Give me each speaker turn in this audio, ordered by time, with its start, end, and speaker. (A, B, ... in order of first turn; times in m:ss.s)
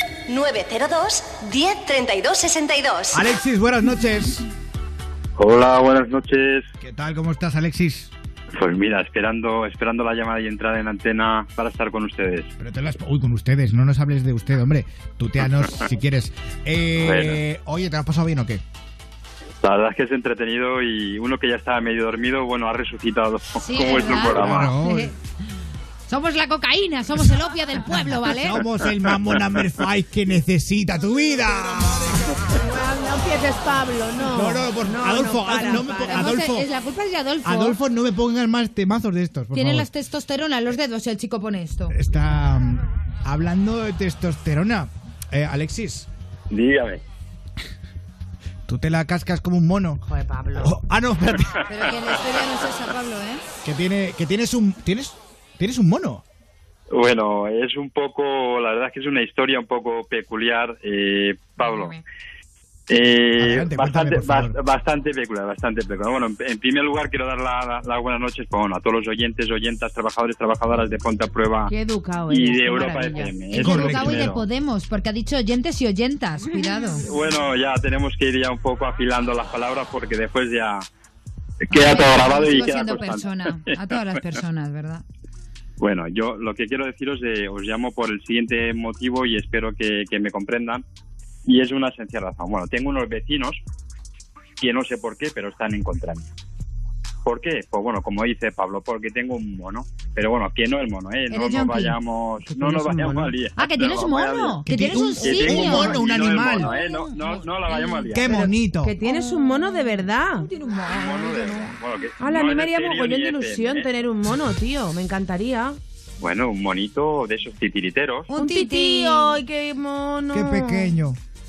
0:00.3-0:03.2 A
0:03.1-0:04.4 B
0:05.4-0:06.7 C
0:06.8-0:08.1 B
0:08.6-0:12.5 C
0:12.6-0:18.6 B
0:17.0-0:17.4 C
0:19.6-0:24.8 C
0:23.6-0:25.2 D
0:24.3-0:25.1 B
0:26.1-0:28.6 D
0:28.3-0:32.4 B
0:32.6-0:36.3 E
0:34.3-0:36.7 B
0:36.1-0:37.8 D
0:37.4-0:39.9 B
0:39.5-0:42.0 D
0:41.9-0:46.1 B
0:46.5-0:47.0 C
0:48.7-0:50.0 B
0:50.0-0:50.8 E
0:50.6-0:51.5 B
0:51.6-0:53.4 D
0:53.6-0:56.2 B
0:56.9-1:02.0 C
1:01.6-1:02.0 D
1:02.9-1:11.7 C
1:03.4-1:04.6 B
1:11.7-1:13.8 E
1:12.3-1:14.4 C
1:13.5-1:17.0 D
1:13.6-1:14.4 B
1:17.0-1:20.9 C
1:21.7-1:23.7 C
1:21.7-1:25.0 D
1:25.8-1:30.8 C
1:31.4-1:33.6 C
1:34.6-1:36.3 C
1:37.2-1:48.4 C
1:41.3-1:42.0 D
1:42.4-1:43.4 E
1:43.6-1:48.5 D
1:44.7-1:46.7 B
1:45.7-1:46.0 E
1:48.1-1:49.0 B
1:48.4-1:50.5 E
1:49.0-1:51.8 D
1:50.9-1:54.1 C
1:52.2-1:55.8 E
1:56.2-1:58.4 C
1:58.3-1:59.4 D
1:58.4-2:00.9 E
2:00.3-2:01.2 B